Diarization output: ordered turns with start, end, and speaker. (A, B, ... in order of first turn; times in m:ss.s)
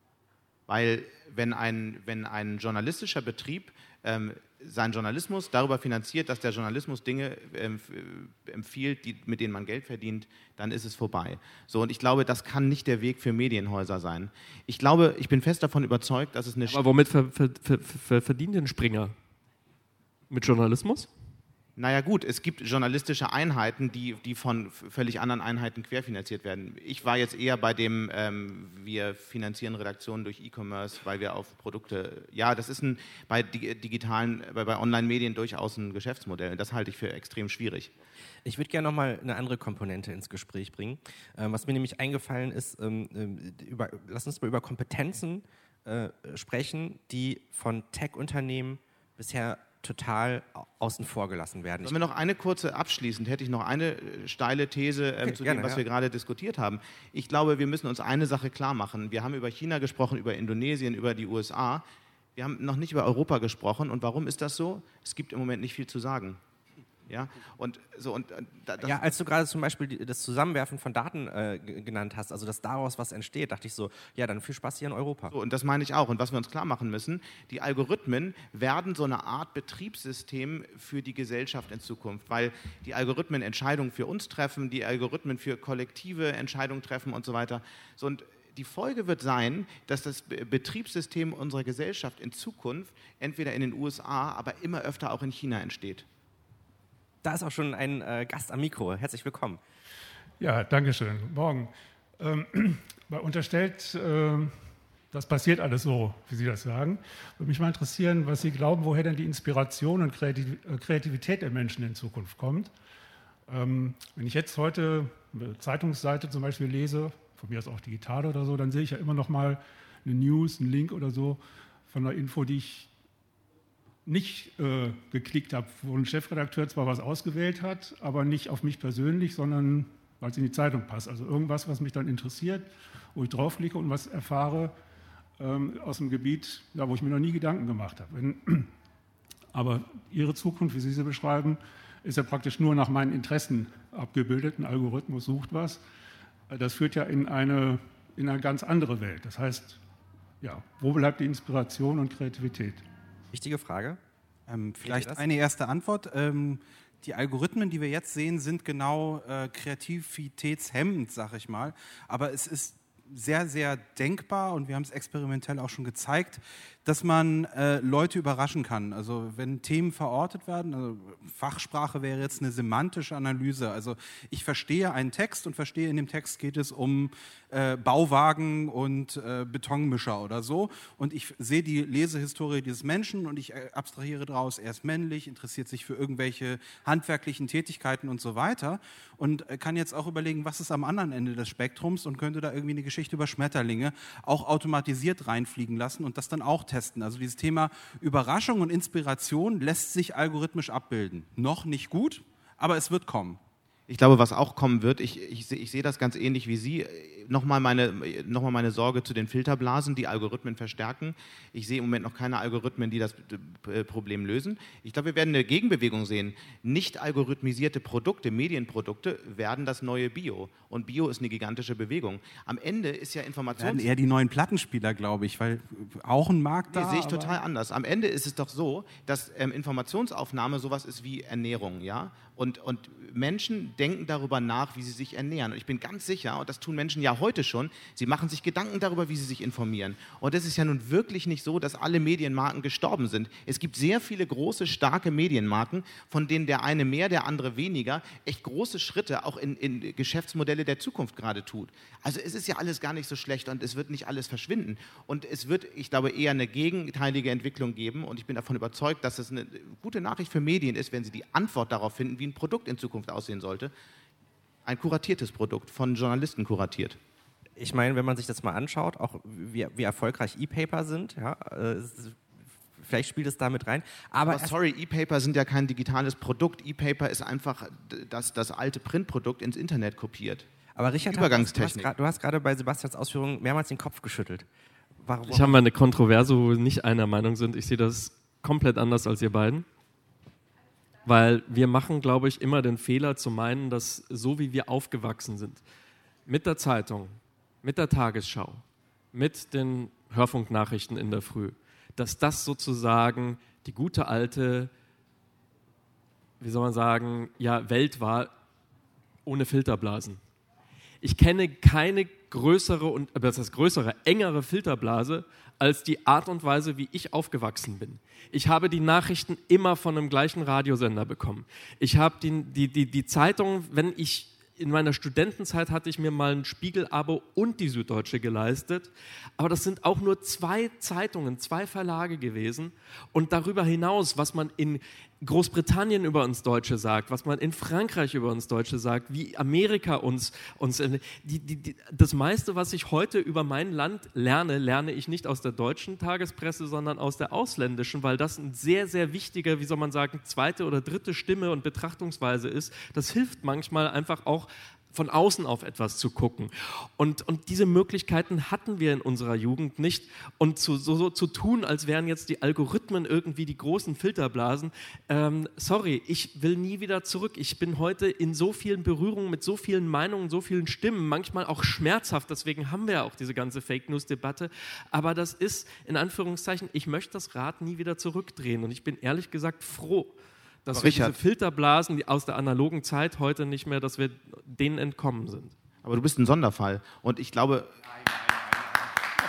0:00.7-0:16.8 A
0:16.7-0:19.1 B
0:20.3-0:21.1 B
0:21.8-0:37.9 A
0:38.4-0:52.0 C
0:51.8-1:01.8 A
0:55.2-0:55.8 C
1:02.4-1:06.4 A
1:07.1-1:09.1 A
1:08.8-1:15.3 C
1:15.3-1:36.0 A
1:37.2-1:39.6 C
1:40.4-1:44.5 D
1:45.1-1:52.7 D
1:53.5-2:02.9 D
2:04.0-2:14.7 D
2:15.4-2:18.7 D
2:19.5-2:25.8 D
2:26.5-2:29.8 D
2:30.4-2:32.8 D
2:33.3-2:34.0 C
2:34.5-3:23.4 E
2:34.8-2:35.2 C
3:23.9-3:43.9 A
3:43.6-3:47.4 E
3:46.7-4:23.7 A
4:24.6-4:27.0 A
4:27.6-4:32.2 C
4:32.8-4:34.5 C
4:34.3-4:40.4 A
4:40.8-4:44.4 C
4:41.1-4:41.9 A
4:45.0-4:45.6 C
4:45.3-4:49.6 B
4:51.0-4:55.6 B
4:56.3-5:04.7 B
5:06.4-5:08.3 B
5:09.2-5:10.2 B
5:11.0-6:25.5 B
6:20.7-6:21.2 A
6:25.8-6:27.7 A